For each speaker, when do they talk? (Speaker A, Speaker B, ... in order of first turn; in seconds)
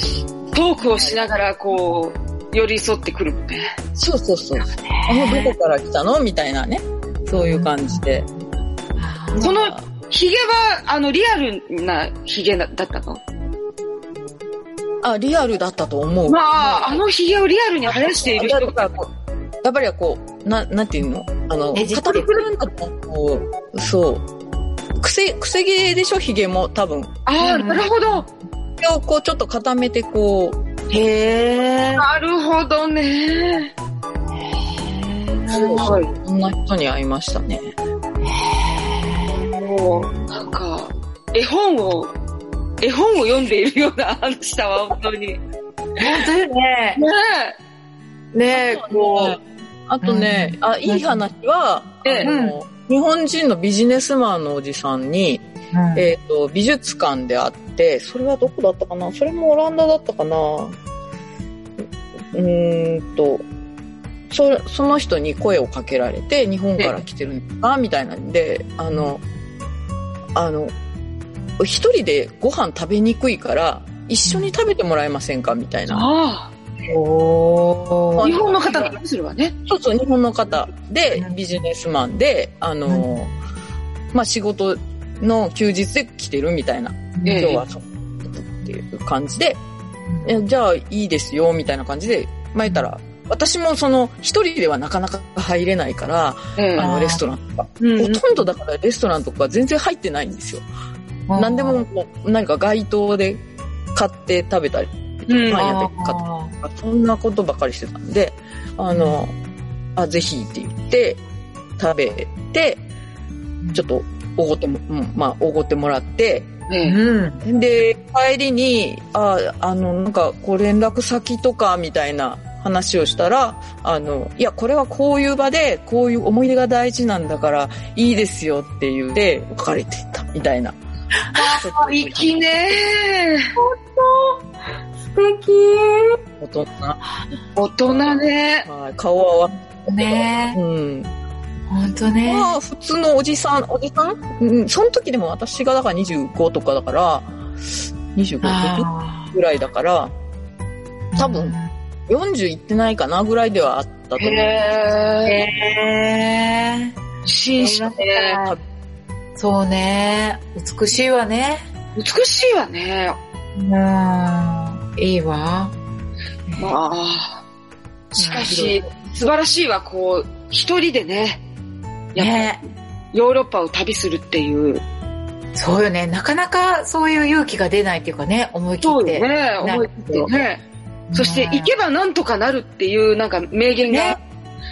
Speaker A: 0.5-3.7, 9.4-13.2, 16.3-18.9, 27.3-28.3, 30.9-33.7, 35.3-36.1, 39.5-42.1, 42.8-45.4, 47.0-47.6, 52.0-52.3, 75.9-76.5, 78.2-79.5, 87.2-87.6, 96.6-96.9, 97.8-98.2, 105.3-105.7, 116.7-117.0, 131.4-133.5, 137.6-138.7, 154.2-155.4, 157.3-158.4, 162.0-163.2, 166.6-167.4, 168.1-171.4, 172.1-172.6, 173.1-174.8, 178.8-180.6, 181.2-184.2
Speaker B: 0.9-1.3, 4.0-8.3, 9.4-9.7, 15.0-17.0, 17.9-19.1, 19.6-24.2, 25.0-27.2, 28.8-30.6, 35.5-37.7, 48.5-60.8, 62.3-63.5, 64.3-69.2, 70.3-70.7, 71.6-76.1, 78.2-79.0, 79.7-83.3, 84.1-89.6, 90.2-100.7, 101.4-103.4, 103.9-109.3, 110.0-111.2, 111.8-112.8, 113.8-116.5, 117.4-130.8, 131.5-132.8, 136.4-137.0, 137.8-141.1, 142.3-147.3, 148.1-150.1, 151.2-151.6, 152.1-154.6, 157.8-158.6
Speaker C: 4.8-5.5, 7.3-8.1, 9.0-9.8, 21.7-22.4, 27.4-27.9, 30.9-32.0, 34.7-36.0, 38.2-40.1, 46.0-47.0, 48.3-49.4, 50.0-51.2, 52.2-52.6, 55.7-56.1, 74.3-74.5, 76.9-78.3, 82.9-83.2, 87.2-87.5, 90.1-90.4, 96.8-97.2, 101.3-101.8, 105.5-106.5, 108.9-109.2, 116.8-117.4, 131.2-131.6, 133.6-134.4, 135.1-136.2, 139.9-140.6, 141.7-142.6, 148.4-149.3, 151.1-151.7, 155.3-156.9, 157.6-158.6, 159.4-161.6, 163.6-165.8, 166.5-166.8, 168.2-168.9, 172.2-172.6, 175.6-180.3, 181.1-181.7, 183.9-184.2